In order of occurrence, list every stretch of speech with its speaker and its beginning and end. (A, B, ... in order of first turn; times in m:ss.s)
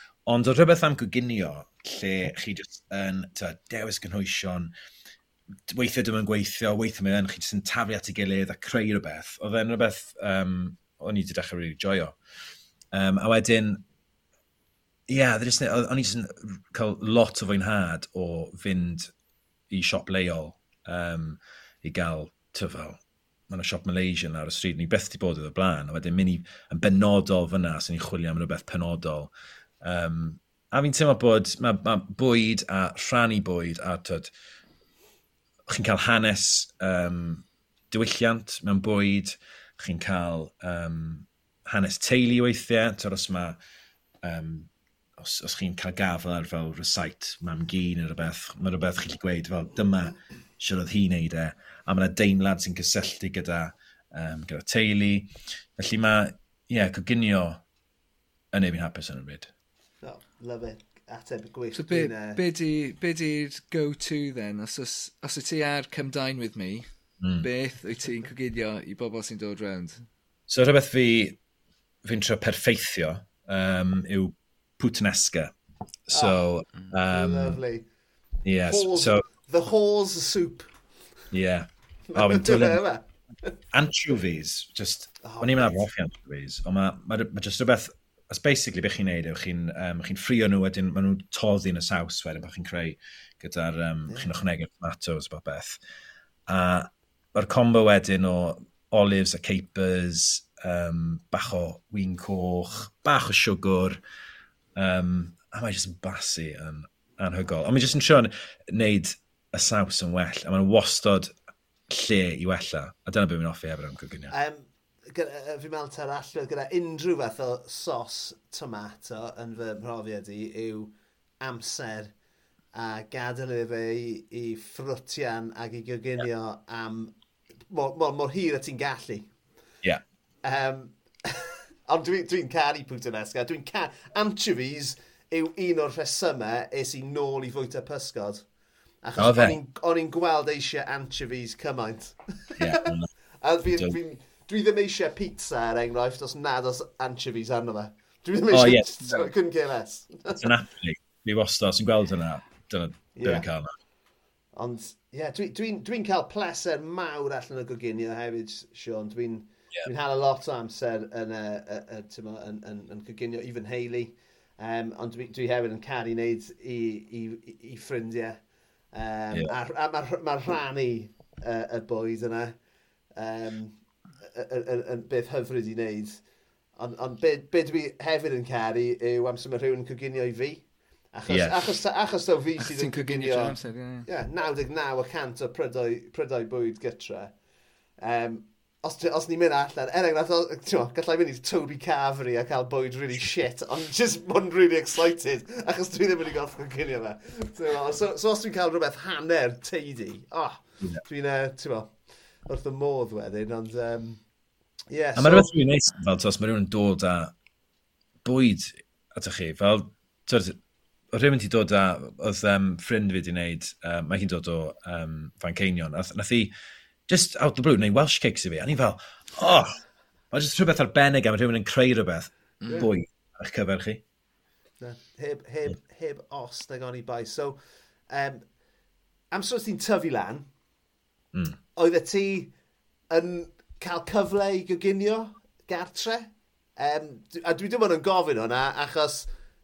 0:00.3-0:04.7 A
0:05.7-0:12.2 A
0:12.9-0:13.8 A
0:15.1-0:19.1 A
0:19.7-0:34.3 A
0:35.7-0:43.6 A
0:44.2-0:57.6 A
0:58.5-0:59.5 A
1:00.0-1:02.4 B
1:01.8-1:06.9 C
1:07.2-1:07.5 A
1:07.4-1:10.0 C
1:10.5-1:11.4 A
1:12.0-1:15.5 A
1:16.1-1:17.6 A
1:16.1-1:16.5 B
1:17.1-1:17.9 B
1:18.4-1:19.2 A
1:18.6-1:20.7 B
1:21.3-1:22.8 A
1:22.1-1:23.5 B
1:23.7-1:35.8 A
1:25.2-1:25.8 B
1:36.5-1:44.0 A
1:44.8-1:51.3 A
1:51.9-1:54.3 A
1:54.3-2:02.1 B
2:02.7-2:07.1 B
2:07.7-2:09.3 B
2:10.4-2:18.4 B
2:19.0-2:30.5 B
2:19.2-2:19.6 A
2:22.6-2:23.1 A
2:28.5-2:29.2 A
2:30.4-2:33.8 A
2:33.2-2:33.5 B
2:34.6-2:48.4 B
2:48.9-2:52.6 B
2:53.2-2:56.2 B
2:56.8-3:07.3 B
3:01.3-3:01.6 A
3:02.6-3:04.1 C
3:08.0-3:24.2 B
3:24.9-3:25.5 B
3:25.2-3:27.3 A
3:28.2-3:30.6 A
3:31.1-3:36.5 A
3:37.1-3:39.8 A
3:40.3-3:44.0 A
3:42.6-3:42.9 C
3:44.8-3:47.6 B
3:48.1-3:48.4 B
3:49.3-3:50.5 B
3:51.8-3:52.5 B
3:53.1-3:59.3 B